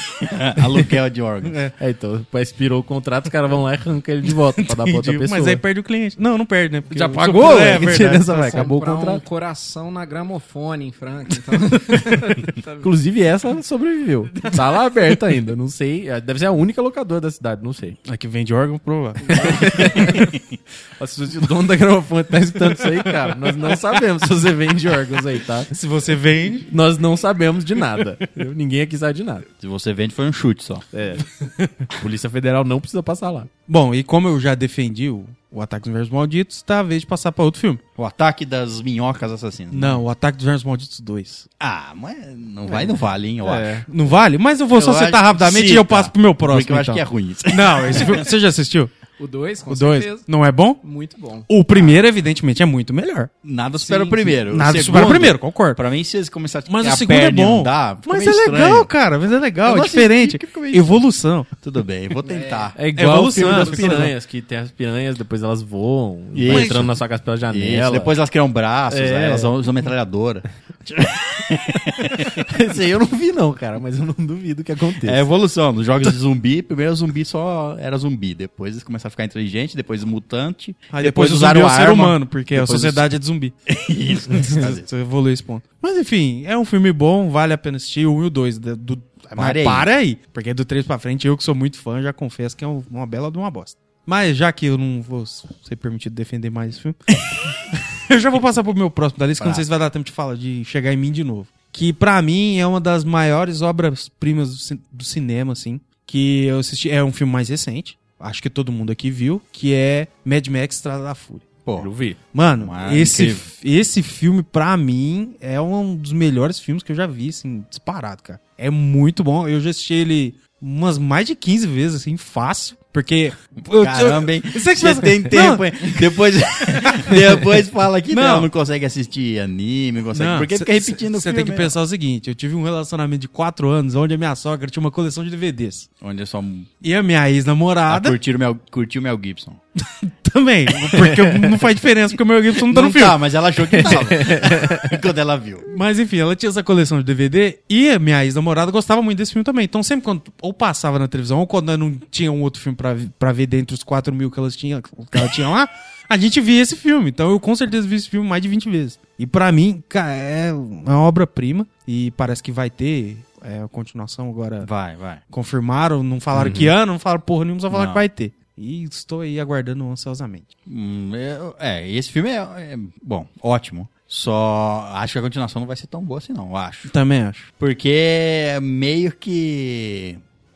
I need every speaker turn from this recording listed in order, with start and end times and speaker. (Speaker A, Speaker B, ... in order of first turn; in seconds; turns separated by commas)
Speaker A: 0.2-1.7, Speaker B: 1.5-1.7, Speaker C: 1.8-5.6, Speaker B: 4.7-8.7, Speaker C: 6.9-9.2, Speaker D: 7.5-12.9, Speaker C: 12.8-18.0, Speaker B: 18.1-20.1, Speaker C: 19.4-20.2, Speaker C: 21.0-25.7, Speaker B: 25.7-26.7, Speaker C: 26.6-29.4, Speaker A: 29.6-30.9, Speaker C: 30.9-31.2, Speaker B: 31.6-31.9, Speaker C: 31.9-33.5, Speaker B: 33.7-37.8, Speaker A: 38.0-40.0, Speaker B: 39.7-41.5, Speaker A: 41.6-43.9, Speaker C: 42.6-43.8, Speaker B: 43.9-48.9, Speaker A: 44.7-48.3, Speaker D: 49.2-51.5, Speaker B: 49.7-50.8, Speaker B: 51.5-53.3, Speaker A: 53.4-58.9, Speaker D: 53.8-54.3, Speaker B: 54.4-55.8, Speaker B: 56.7-61.5, Speaker A: 59.6-61.1, Speaker A: 61.6-62.8, Speaker D: 62.2-62.8, Speaker C: 62.8-68.2, Speaker B: 63.0-64.1, Speaker D: 63.4-64.0, Speaker A: 66.3-67.0, Speaker B: 66.5-66.9, Speaker A: 67.5-72.4, Speaker C: 68.9-69.5, Speaker C: 72.2-75.2, Speaker A: 75.0-83.0, Speaker B: 80.9-83.5, Speaker A: 83.7-84.9, Speaker B: 84.3-97.0, Speaker A: 89.3-89.9, Speaker B: 98.1-111.5, Speaker A: 99.4-99.7, Speaker A: 111.6-111.9, Speaker C: 111.8-112.2, Speaker B: 112.3-126.0, Speaker A: 112.5-113.5, Speaker A: 123.8-131.7, Speaker B: 126.9-127.2, Speaker B: 128.1-128.5, Speaker B: 130.1-135.9, Speaker A: 136.0-136.7, Speaker B: 136.8-138.1, Speaker A: 137.9-139.6, Speaker B: 140.0-143.2, Speaker C: 141.0-141.4, Speaker A: 142.6-145.7, Speaker C: 143.8-144.9, Speaker B: 145.7-164.7, Speaker A: 164.6-165.2, Speaker B: 165.3-170.5, Speaker A: 166.3-166.7, Speaker A: 167.7-168.1, Speaker A: 170.7-176.9, Speaker B: 176.9-177.5, Speaker A: 177.6-180.2